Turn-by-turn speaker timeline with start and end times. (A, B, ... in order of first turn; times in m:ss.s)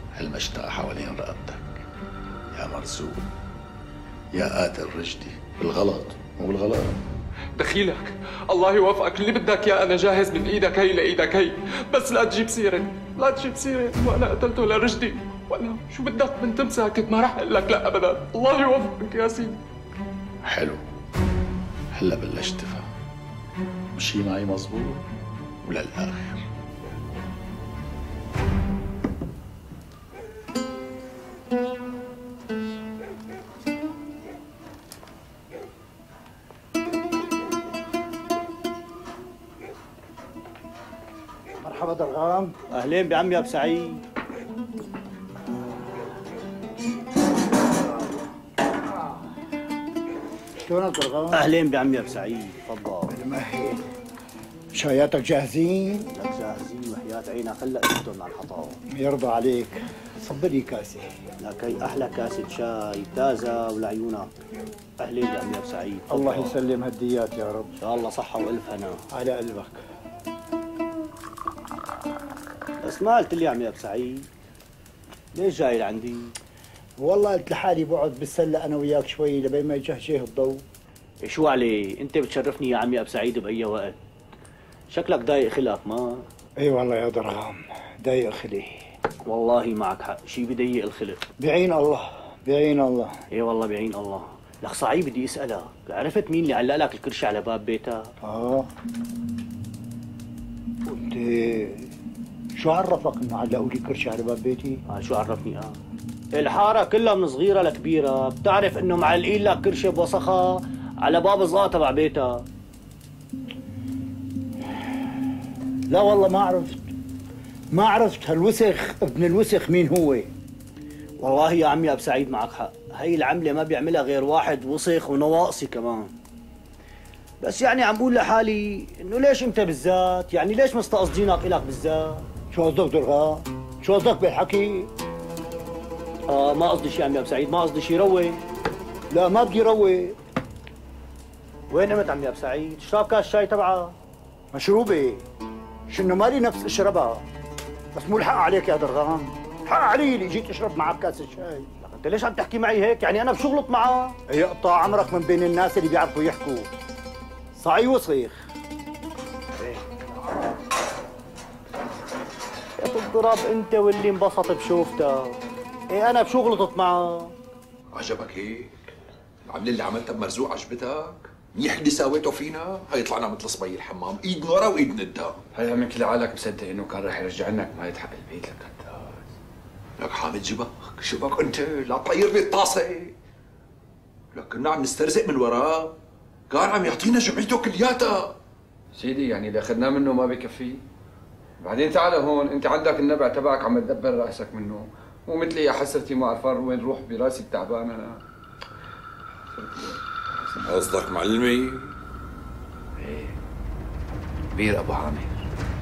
0:00.2-0:01.8 A
0:02.5-0:03.2 A
0:04.3-0:07.0 A
0:07.6-0:19.6 B
0:20.5-0:20.8 A
0:21.9-0:22.9 A
0:24.0-0:25.0 A
0:25.6-0:26.4 A
0:41.6-0:42.5 C
0:42.8-0:44.0 D
0:50.7-0:51.4 C
0:51.3-0:53.1 D
0:53.1-0:53.8 C
0:54.8-0:56.1 C
0:56.2-0:58.8 D
0:58.9-1:01.1 C
1:01.4-1:04.3 D
1:05.0-1:06.6 D
1:06.1-1:07.7 C
1:07.8-1:09.0 D
1:09.1-1:09.8 C
1:12.8-1:14.3 D
1:15.4-1:16.3 D
1:17.0-1:20.6 C
1:21.3-1:24.0 D
1:24.9-1:26.2 D
1:26.6-1:28.8 C
1:29.3-1:31.3 D
1:31.4-1:33.1 C
1:33.4-1:38.1 D
1:38.2-1:38.7 C
1:40.9-1:41.9 C
1:42.6-1:44.8 C
1:44.9-1:45.8 D
1:46.4-1:52.4 D
1:55.9-1:56.8 C
1:57.7-2:00.3 C
2:01.2-2:06.1 D
2:07.4-2:12.3 D
2:12.5-2:14.6 C
2:16.3-2:18.4 D
2:19.2-2:20.1 C
2:21.7-2:23.9 D
2:24.5-2:25.2 C
2:25.9-2:27.2 C
2:28.0-2:29.3 C
2:29.7-2:30.9 D
2:30.1-2:31.6 C
2:31.8-2:36.7 D
2:37.6-2:38.4 D
2:42.8-2:45.4 D
2:45.9-2:47.3 D
2:47.9-2:48.7 E
2:49.5-2:55.4 E
2:55.6-2:59.2 F
3:00.0-3:03.1 E
3:04.3-3:05.9 E
3:06.5-3:08.3 E
3:09.0-3:10.8 F
3:11.6-3:18.2 F
3:19.5-3:20.8 F
3:20.8-3:21.9 E
3:23.0-3:23.4 F
3:24.5-3:25.4 F